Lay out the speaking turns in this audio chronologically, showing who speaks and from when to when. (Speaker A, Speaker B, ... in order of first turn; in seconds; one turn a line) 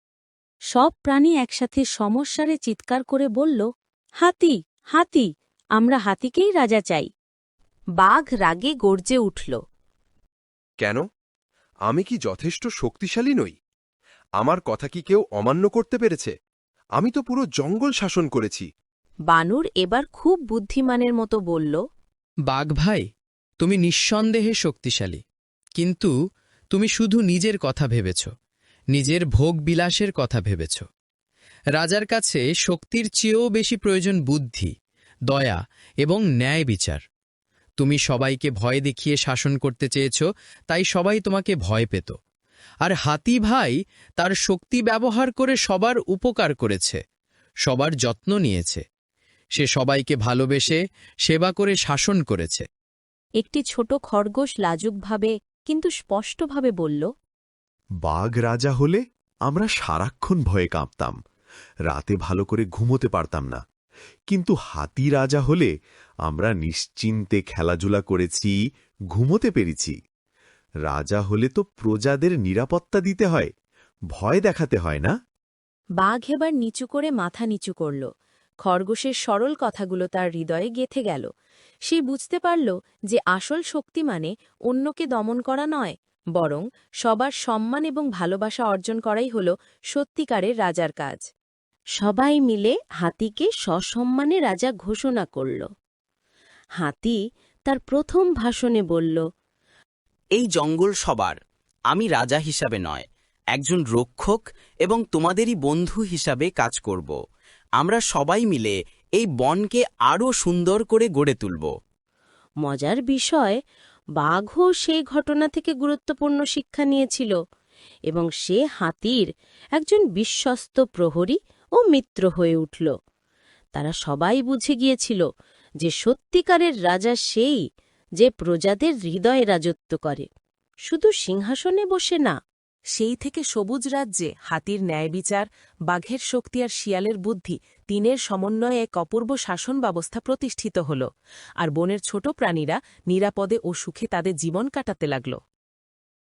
Speaker A: 0.7-3.7
Speaker A: 4.2-7.1
Speaker A: 8.0-9.6
Speaker B: 11.9-13.6
Speaker B: 14.4-16.3
Speaker B: 17.0-18.7
Speaker A: 19.3-21.8
Speaker C: 22.5-23.1
Speaker C: 23.6-25.2
Speaker C: 25.8-26.1
Speaker C: 26.7-28.3
Speaker C: 28.9-30.9
Speaker C: 31.8-34.7
Speaker C: 35.3-37.0
Speaker C: 37.8-42.2
Speaker C: 42.8-47.0
Speaker C: 47.7-48.8
Speaker C: 49.6-52.6
Speaker A: 53.4-57.0
Speaker D: 58.0-61.2
Speaker D: 61.9-63.6
Speaker D: 64.3-65.7
Speaker D: 66.2-68.6
Speaker D: 69.1-70.0
Speaker D: 70.9-73.5
Speaker D: 74.1-75.1
Speaker A: 76.0-78.1
Speaker A: 78.6-81.3
Speaker A: 81.9-91.2
Speaker A: 92.0-95.7
Speaker A: 96.8-99.2
Speaker D: 100.4-101.0
Speaker E: 100.5-101.3
Speaker D: 102.0-102.8
Speaker E: 102.0-103.0
Speaker D: 103.7-104.2
Speaker E: 103.7-104.3
Speaker E: 104.9-107.1
Speaker D: 105.0-106.8
Speaker E: 107.9-108.7
Speaker D: 108.0-108.5
Speaker D: 109.3-111.5
Speaker E: 109.5-111.7
Speaker A: 112.6-113.6
Speaker A: 114.2-117.3
Speaker A: 118.1-122.9
Speaker A: 123.7-125.2
Speaker A: 125.8-127.6
Speaker A: 128.2-130.3
Speaker A: 130.9-132.3
Speaker A: 132.9-141.1
Speaker A: 141.6-145.4